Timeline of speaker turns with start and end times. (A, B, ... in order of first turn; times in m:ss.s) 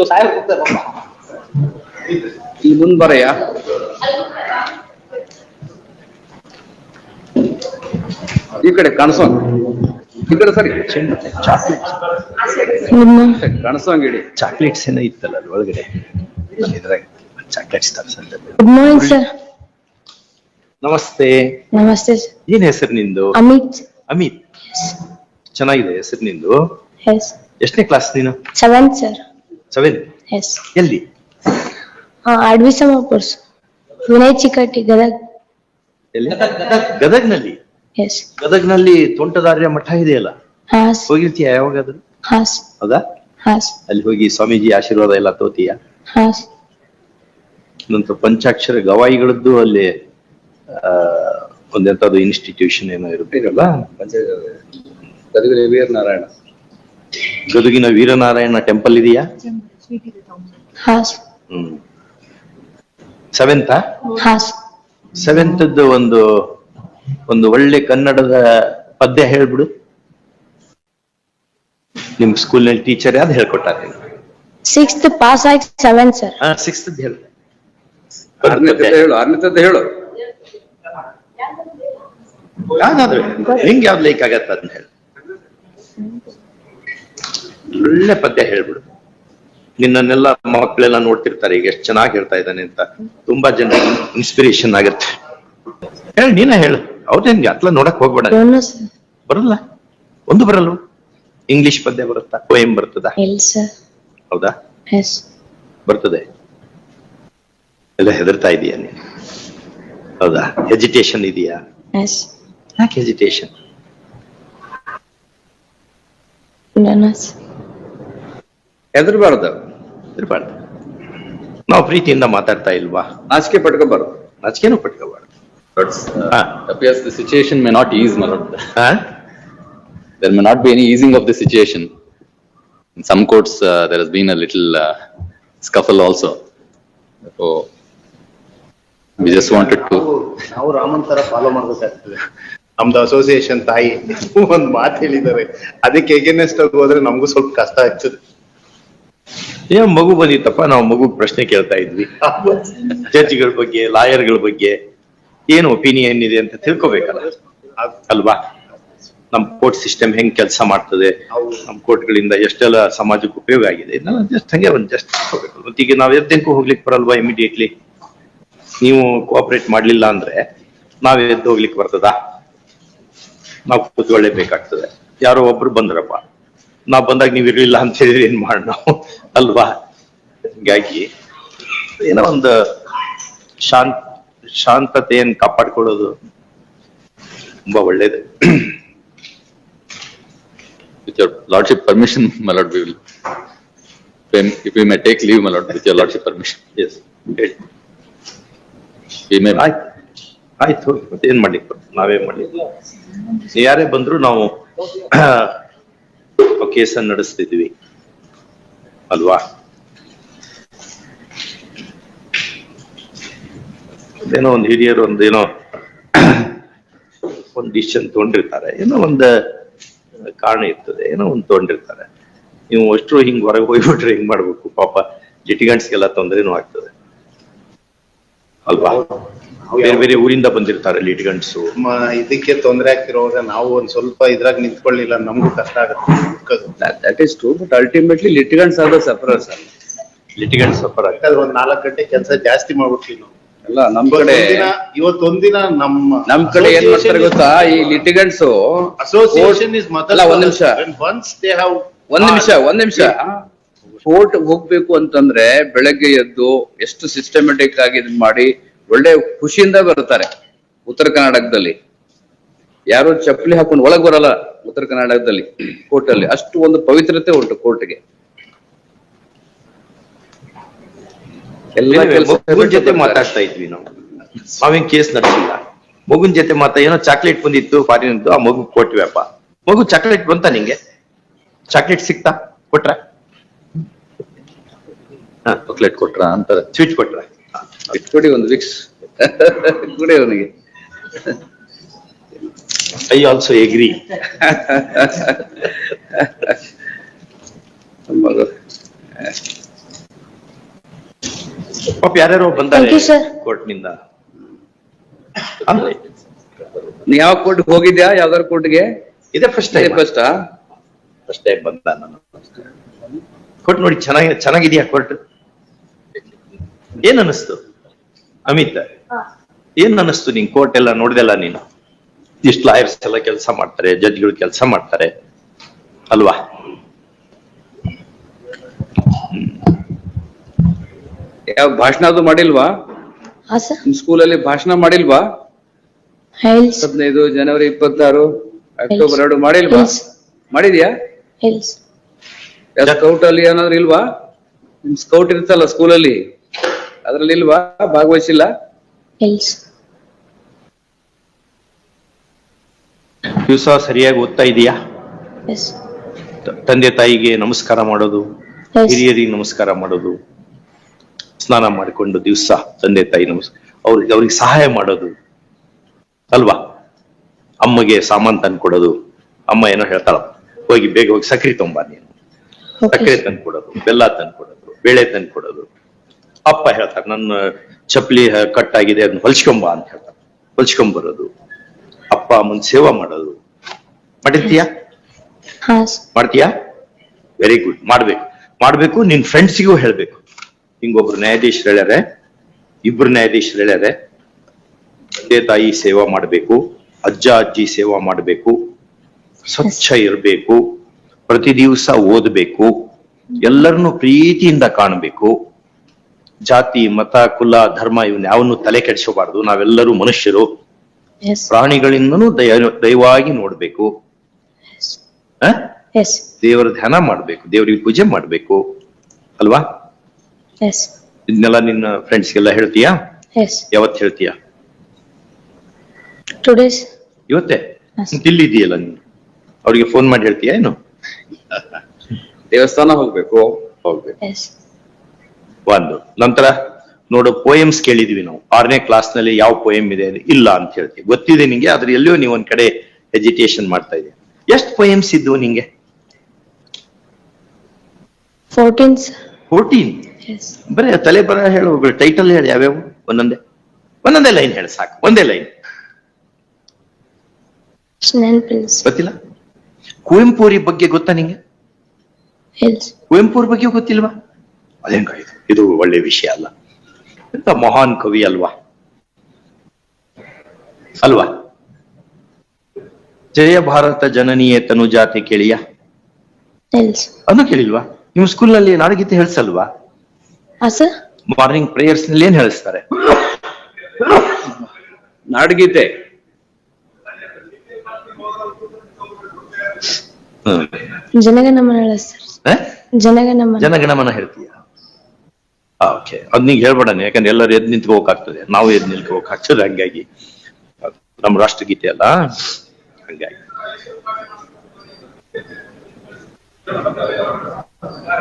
0:02.6-0:03.4 A
0:08.6-0:09.5 A
0:10.2-0:10.8 A
0:10.8-0:12.0 B
0:12.9-0:13.4 C
0:13.4-0:14.3 A
0:14.4-0:15.9 B
0:16.6-0:19.2 B
0:18.6-0:19.3 C
0:20.8-0:21.6 B
0:21.7-0:22.3 C
0:22.5-0:23.4 B
0:23.3-0:23.8 C
0:24.1-0:24.4 B
0:25.6-0:26.6 B
0:27.0-0:27.3 C
0:27.6-0:28.4 B
0:28.6-0:29.2 C
0:29.7-0:30.1 B
0:30.3-0:30.6 C
0:30.7-0:31.0 B
0:32.3-0:33.4 C
0:34.0-0:35.2 C
0:36.2-0:37.6 B
0:38.0-0:38.3 C
0:38.4-0:40.3 B
0:40.7-0:41.1 C
0:41.1-0:42.0 B
0:42.3-0:42.6 C
0:43.4-0:43.7 C
0:43.9-0:45.8 B
0:46.1-0:46.5 C
0:47.9-0:49.9 B
0:50.7-0:53.7 B
0:53.3-0:54.6 A
0:55.3-0:56.3 A
0:57.5-0:59.2 B
1:00.8-1:01.2 C
1:01.5-1:01.8 B
1:03.3-1:03.8 B
1:04.2-1:04.5 C
1:05.2-1:06.5 B
1:07.3-1:09.7 B
1:12.2-1:14.0 B
1:14.7-1:16.3 C
1:16.4-1:17.2 B
1:18.4-1:19.0 B
1:18.4-1:19.8 A
1:22.7-1:24.9 B
1:27.7-1:28.8 B
1:29.8-1:35.1 B
1:36.2-1:38.4 B
1:38.3-1:38.9 C
1:39.3-1:39.6 B
1:40.3-1:40.8 B
1:41.5-1:43.2 B
1:43.2-1:43.7 C
1:44.9-1:45.2 C
1:45.9-1:46.2 B
1:48.0-1:49.0 B
1:50.2-1:51.6 B
1:51.9-1:52.3 C
1:52.8-1:53.5 B
1:56.8-1:57.3 C
1:58.9-1:59.6 A
2:00.2-2:00.5 B
2:01.7-2:03.1 B
2:03.3-2:04.2 A
2:04.4-2:05.2 B
2:05.8-2:08.6 D
2:06.3-2:06.6 B
2:08.8-2:09.0 B
2:10.2-2:11.9 D
2:13.0-2:14.9 D
2:15.6-2:16.4 D
2:17.4-2:17.7 D
2:19.2-2:20.0 D
2:19.2-2:22.2 E
2:22.8-2:28.2 E
2:29.7-2:34.8 B
2:35.5-2:37.3 B
2:38.1-2:38.4 B
2:39.3-2:41.1 B
2:41.7-2:47.7 B
2:48.8-2:50.4 B
2:51.0-2:52.1 B
2:53.7-2:56.2 B
2:56.9-2:59.8 B
3:00.6-3:01.1 B
3:02.0-3:02.6 B
3:03.6-3:04.0 B
3:04.6-3:06.1 B
3:07.7-3:08.7 B
3:11.1-3:13.0 D
3:14.3-3:16.6 D
3:16.8-3:17.6 B
3:19.3-3:19.6 D
3:19.5-3:19.8 B
3:20.6-3:22.5 B
3:23.5-3:24.5 B
3:25.1-3:25.6 B
3:26.6-3:27.7 B
3:29.1-3:29.4 B
3:34.2-3:35.5 B
3:36.1-3:36.5 B
3:37.5-3:39.3 B
3:40.4-3:42.1 B
3:42.7-3:46.9 B
3:48.7-3:49.0 B
3:49.7-3:50.0 E
3:49.8-3:51.7 B
3:51.8-3:56.7 E
3:56.8-3:59.7 A
4:00.4-4:01.2 B
4:01.2-4:03.3 E
4:03.7-4:04.7 A
4:04.1-4:08.0 E
4:06.3-4:10.8 A
4:09.0-4:13.1 E
4:12.1-4:13.4 A
4:14.0-4:20.3 A
4:20.9-4:21.8 A
4:22.9-4:28.0 A
4:31.8-4:33.3 A
4:31.9-4:33.9 B
4:34.5-4:40.8 B
4:41.7-4:43.0 B
4:45.7-4:46.7 D
4:46.7-4:47.3 B
4:47.9-4:50.5 A
4:53.1-4:54.1 B
4:54.4-4:55.3 A
4:58.1-4:58.5 A
5:02.0-5:04.0 B
5:02.7-5:03.3 C
5:05.6-5:06.0 B
5:07.1-5:08.9 A
5:09.3-5:10.0 B
5:09.7-5:10.3 A
5:11.3-5:12.3 B
5:13.6-5:15.2 B
5:17.0-5:17.6 B
5:18.5-5:18.9 B
5:19.8-5:21.6 B
5:22.4-5:25.1 B
5:26.1-5:26.4 B
5:31.5-5:32.7 A
5:33.5-5:33.8 C
5:33.9-5:35.2 A
5:36.4-5:36.9 C
5:36.8-5:38.3 A
5:38.8-5:39.9 A
5:38.9-5:39.2 C
5:39.7-5:40.0 C
5:40.5-5:40.9 A
5:41.4-5:41.8 C
5:42.8-5:44.0 A
5:44.8-5:46.2 A
5:47.0-5:48.5 A
5:49.2-5:49.6 C
5:53.4-5:54.8 B
5:55.5-5:55.7 C
5:56.5-5:58.2 B
5:58.8-5:59.0 C
5:58.9-6:00.1 B
6:01.4-6:05.1 B
6:06.3-6:06.6 B
6:07.6-6:08.9 B
6:09.5-6:12.1 B
6:12.8-6:13.2 C
6:12.9-6:15.6 B
6:16.5-6:21.3 B
6:22.1-6:23.4 B
6:24.2-6:24.7 B
6:25.6-6:26.0 C
6:26.1-6:26.5 B
6:27.4-6:30.2 B
6:30.8-6:32.0 B
6:32.8-6:33.9 B
6:35.2-6:38.6 B
6:39.5-6:40.6 B
6:41.3-6:42.7 B
6:43.4-6:45.3 B
6:46.4-6:50.5 B
6:51.5-6:53.9 B
6:55.9-6:56.2 C
6:56.4-6:58.6 B
6:59.4-6:59.6 B
7:00.6-7:00.9 C
7:01.3-7:03.0 B
7:03.4-7:03.6 C
7:03.7-7:04.3 B
7:06.4-7:06.9 C
7:07.3-7:09.0 B
7:09.6-7:10.8 B
7:12.5-7:13.5 A
7:13.8-7:14.1 B
7:14.2-7:14.5 C
7:15.7-7:16.5 B
7:17.1-7:25.6 B
7:28.5-7:29.1 C
7:29.5-7:30.0 B
7:30.3-7:30.5 C
7:30.7-7:33.4 B
7:34.0-7:35.5 B
7:38.0-7:38.8 C
7:38.8-7:39.1 B
7:40.1-7:41.4 B
7:42.6-7:42.9 C
7:43.1-7:44.1 B
7:44.8-7:46.5 B
7:47.3-7:48.5 B
7:51.0-7:51.3 B
7:53.3-7:55.6 B
7:56.7-7:57.1 C
7:57.3-7:59.7 B
8:00.6-8:00.9 C
8:01.3-8:03.3 B
8:05.3-8:05.9 A
8:10.5-8:10.8 B
8:11.2-8:12.3 C
8:13.0-8:13.7 C
8:13.6-8:14.6 B
8:15.8-8:20.0 B
8:20.8-8:22.4 B
8:23.1-8:23.3 B